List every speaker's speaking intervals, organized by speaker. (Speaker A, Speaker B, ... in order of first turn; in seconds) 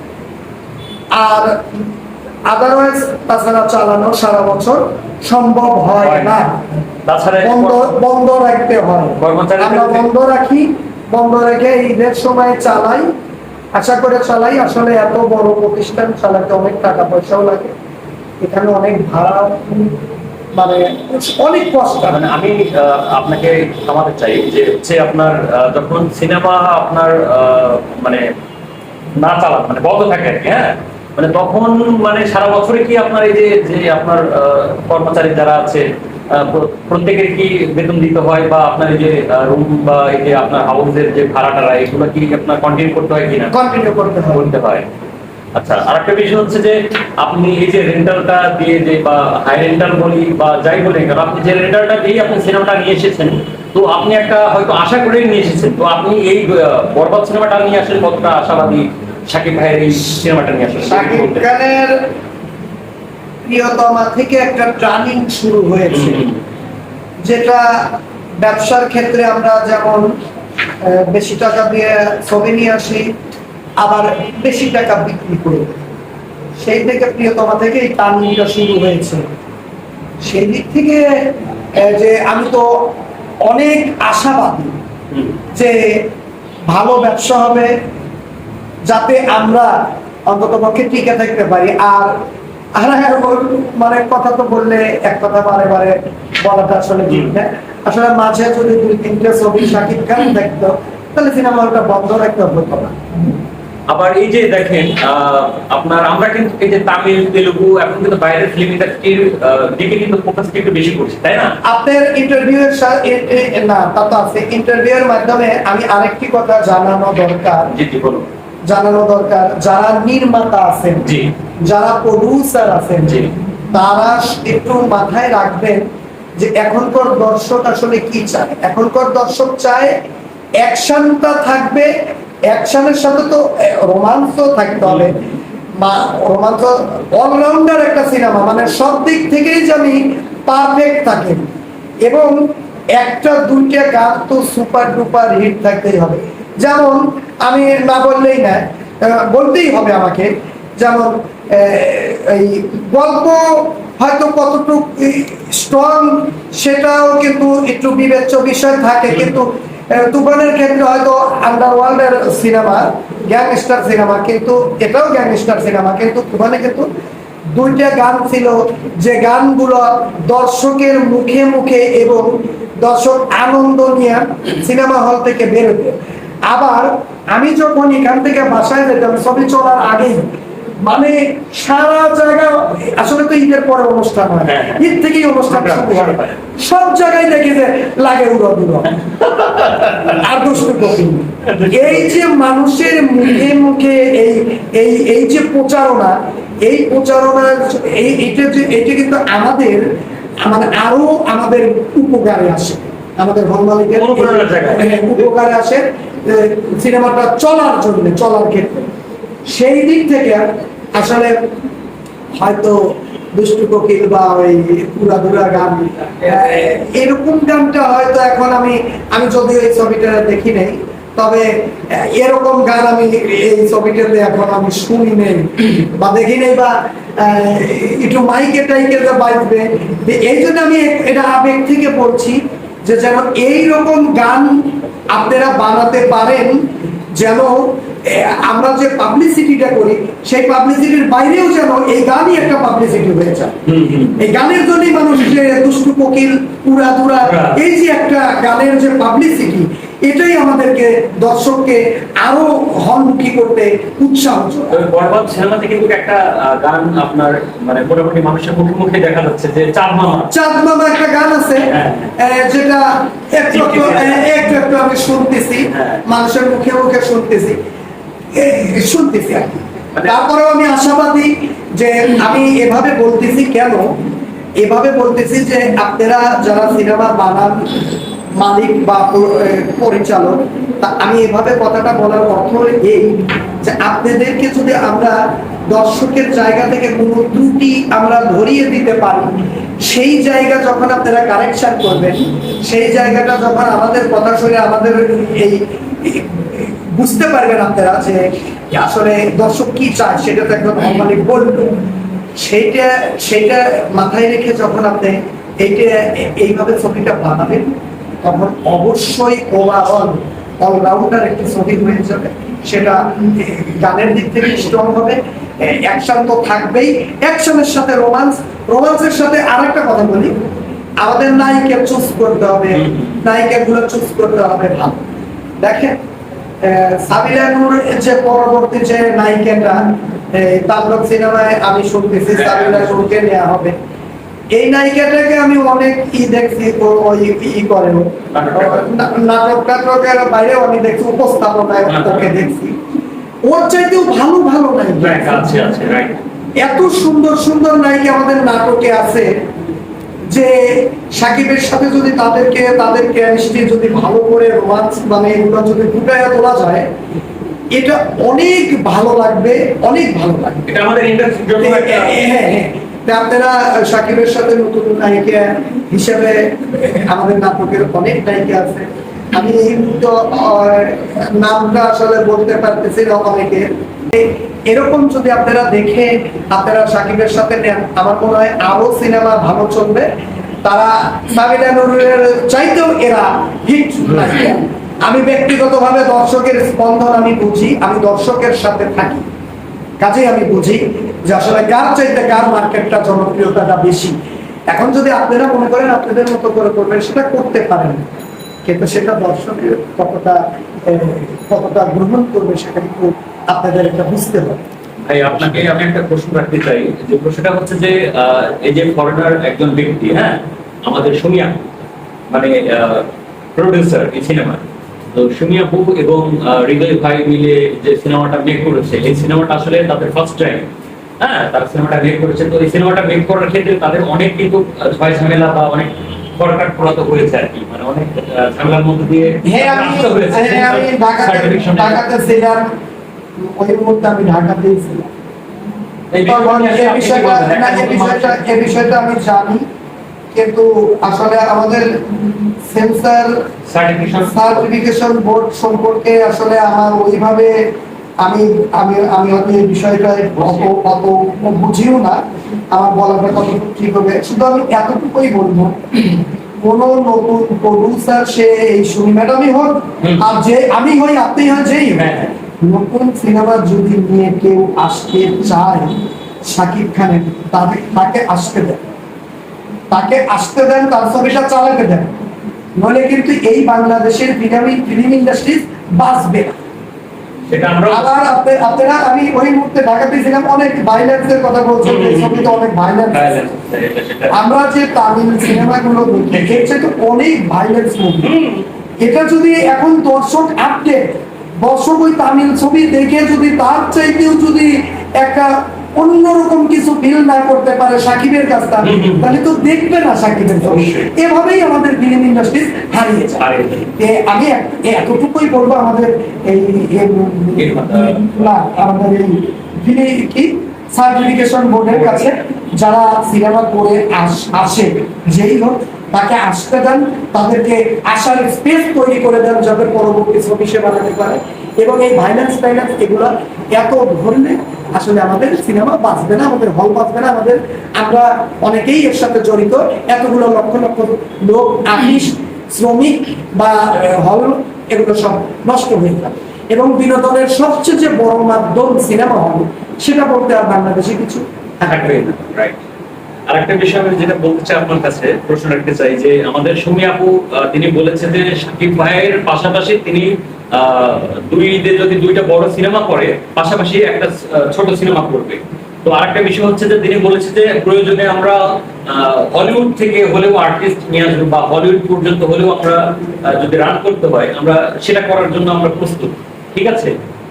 Speaker A: 1.1-1.6, 2.5-6.6, 7.4-13.1, 13.7-17.7, 18.4-19.9, 20.5-22.2, 43.5-44.5, 60.8-62.0, 63.4-66.2, 67.2-70.1, 70.8-73.1, 73.8-75.8, 76.6-79.2, 80.2-81.1, 81.7-82.7, 83.5-84.7, 85.5-85.9, 86.7-87.7, 88.9-89.7, 90.3-92.1, 92.8-102.9, 111.6-117.7, 118.7-121.1, 121.6-125.8, 126.4-129.9, 130.6-131.9, 132.5-135.2, 135.8-141.5, 142.0-142.4, 142.9-166.9, 167.5-180.3, 180.8-199.8, 200.4-208.9, 209.5-211.4, 212.4-212.8, 213.3-243.6, 244.2-254.8, 260.3-267.6, 268.3-273.9, 274.6-277.8, 278.4-285.2, 285.7-301.8, 302.4-307.7, 308.2-320.4, 321.0-325.1, 325.6-326.0, 326.6-333.7, 334.5-342.8, 343.4-345.4, 346.6-349.3, 350.3-356.8, 357.7-360.7, 361.6-380.1, 380.6-389.2, 390.0-394.1, 394.7-398.1, 398.6-404.6, 429.4-432.7, 433.4-435.1, 436.2-439.6, 440.3-441.9, 442.7-443.4, 444.3-447.6, 448.2-452.2, 452.7-465.9, 466.4-468.8, 469.9-472.1, 472.8-476.6, 477.9-483.3, 484.3-488.3, 489.0-542.0
Speaker B: 6.0-6.4, 7.1-7.9, 9.2-10.1, 22.1-28.2, 29.2-43.5, 44.3-44.9, 45.5-61.5, 65.9-66.4, 97.1-97.3, 103.9-111.6, 117.7-118.3, 121.0-121.3, 123.1-123.3, 184.4-184.9, 185.5-186.4, 189.3-190.1, 191.4-192.2, 203.9-205.2, 243.7-244.2, 247.2-247.6, 254.7-260.3, 261.6-262.1, 263.5-264.3, 265.7-266.0, 322.8-323.1, 332.3-333.0, 338.3-338.9, 341.9-342.3, 345.0-346.2, 360.7-362.2, 405.1-411.7, 412.3-420.7, 421.2-432.0, 436.1-438.4, 443.7-444.7, 450.4-450.7, 460.0-460.3, 462.0-462.3, 477.5-478.1, 481.8-482.6, 483.1-484.4, 486.3-486.7, 488.2-488.6, 498.8-499.3, 500.6-501.1, 503.4-503.9, 507.6-508.5, 511.9-512.4, 541.8-542.8, 543.5-567.1